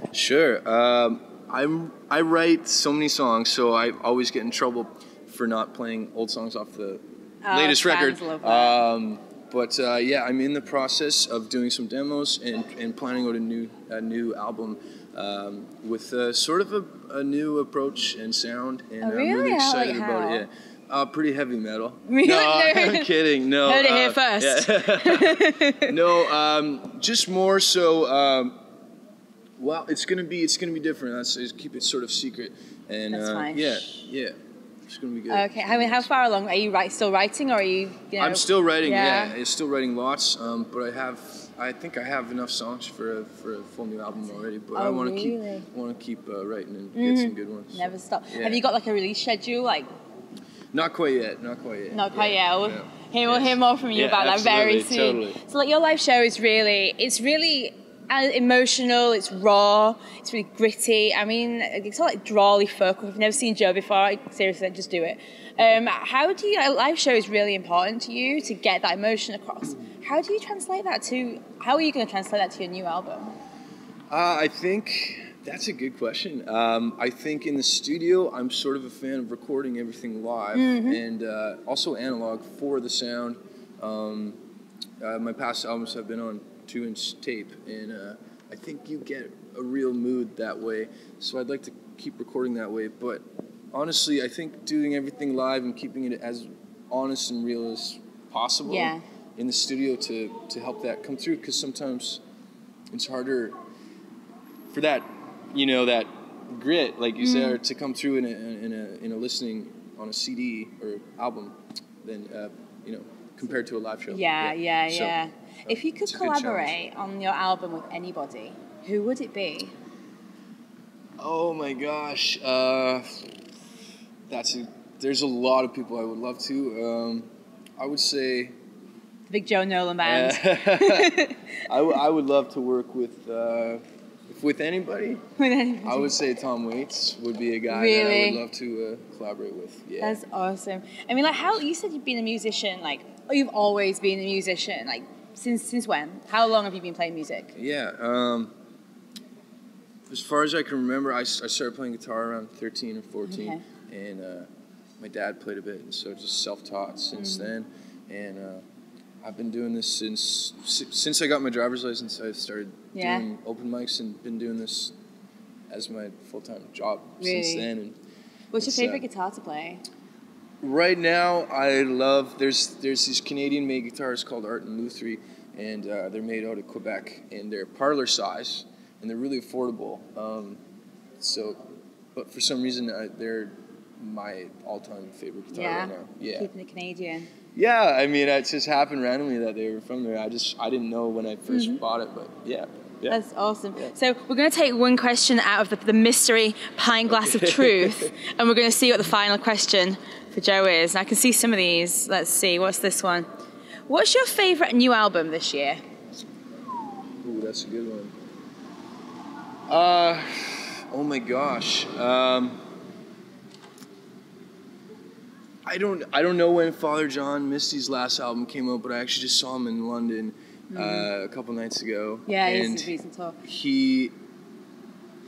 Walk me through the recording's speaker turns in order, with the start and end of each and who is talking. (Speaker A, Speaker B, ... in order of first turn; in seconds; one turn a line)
Speaker A: 0.1-28.5
Speaker B: 7.4-8.8
Speaker B: 19.0-20.4
Speaker B: 22.1-23.1
Speaker B: 23.6-26.0
Speaker A: 29.6-34.3
Speaker B: 33.1-34.0
Speaker A: 34.9-36.1
Speaker B: 35.3-39.4
Speaker A: 38.2-48.6
Speaker B: 44.7-45.7
Speaker B: 46.9-49.9
Speaker A: 50.7-55.4
Speaker B: 51.9-73.3
Speaker A: 74.1-84.4
Speaker B: 80.5-81.0
Speaker A: 85.0-102.2
Speaker B: 98.6-99.0
Speaker A: 102.9-103.5
Speaker A: 104.7-116.8
Speaker B: 107.2-107.6
Speaker B: 114.1-119.7
Speaker A: 121.2-123.3
Speaker A: 124.3-127.3
Speaker A: 127.8-128.5
Speaker B: 129.3-131.5
Speaker A: 130.0-135.2
Speaker B: 135.4-136.1
Speaker A: 135.8-140.2
Speaker B: 137.7-138.4
Speaker B: 140.0-147.5
Speaker A: 147.5-148.5
Speaker A: 150.1-154.5
Speaker B: 153.2-153.6
Speaker A: 155.0-158.6
Speaker B: 157.2-157.5
Speaker A: 159.2-164.9
Speaker B: 162.9-163.2
Speaker A: 165.7-168.0
Speaker B: 167.2-167.7
Speaker B: 168.5-169.8
Speaker A: 168.6-169.0
Speaker A: 170.6-180.6
Speaker A: 181.2-181.6
Speaker A: 182.1-186.5
Speaker B: 185.5-187.3
Speaker A: 187.5-193.2
Speaker B: 191.5-191.8
Speaker B: 193.1-203.3
Speaker A: 197.1-198.1
Speaker B: 203.9-205.8
Speaker A: 207.2-208.1
Speaker A: 209.7-212.6
Speaker A: 215.6-222.9
Speaker B: 220.7-221.1
Speaker B: 222.2-223.4
Speaker A: 223.4-224.1